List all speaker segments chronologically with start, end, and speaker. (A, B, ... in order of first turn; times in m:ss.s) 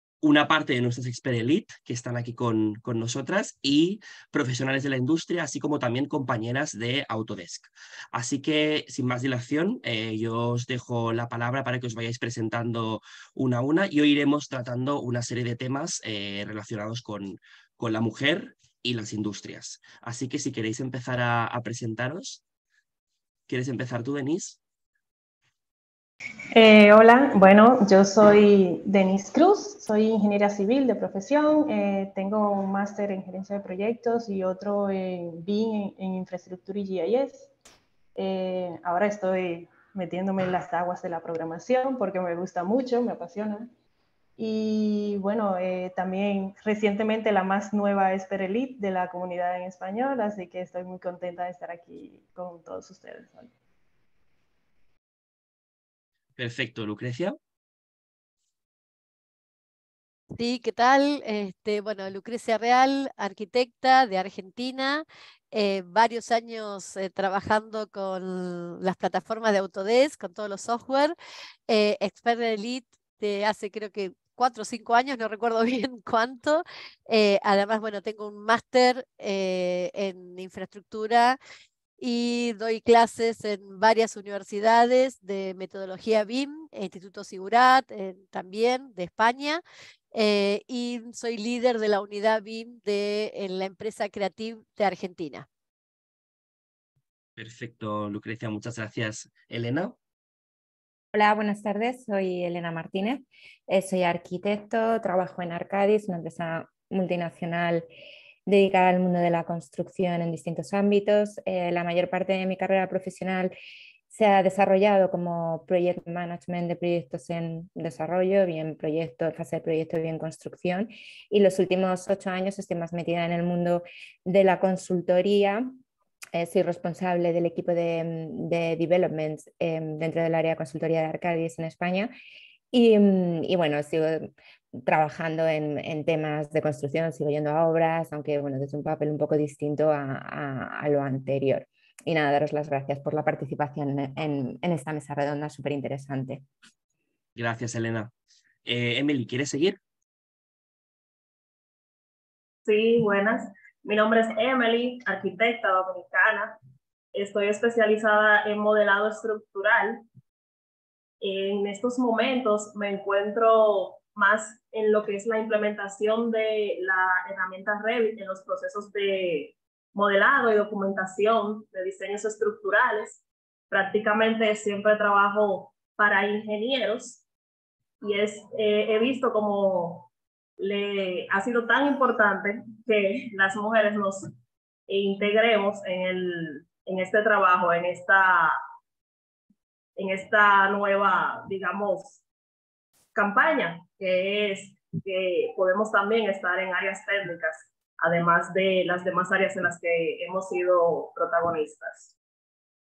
0:00.2-0:22.4 A
0:23.5-0:24.6 A
0:26.5-0:37.5 B
0:38.2-0:43.7 B
0:44.4-0:53.5 B
0:56.4-0:57.4 A
1:00.3-1:11.1 C
1:11.7-1:21.4 C
1:22.0-1:29.6 C
1:30.1-1:35.5 C
1:37.4-1:40.0 A
1:41.1-1:47.9 D
1:48.4-1:53.5 D
1:54.1-2:05.8 D
2:06.3-2:12.1 D
2:12.7-2:14.3 D
2:14.8-2:26.4 D
2:27.4-2:28.1 A
2:28.6-2:29.8 A
2:32.6-2:36.6 E
2:37.1-2:40.0 E
2:41.2-2:57.2 E
2:58.0-3:04.3 E
3:04.9-3:08.6 E
3:10.0-3:12.2 E
3:13.1-3:22.1 E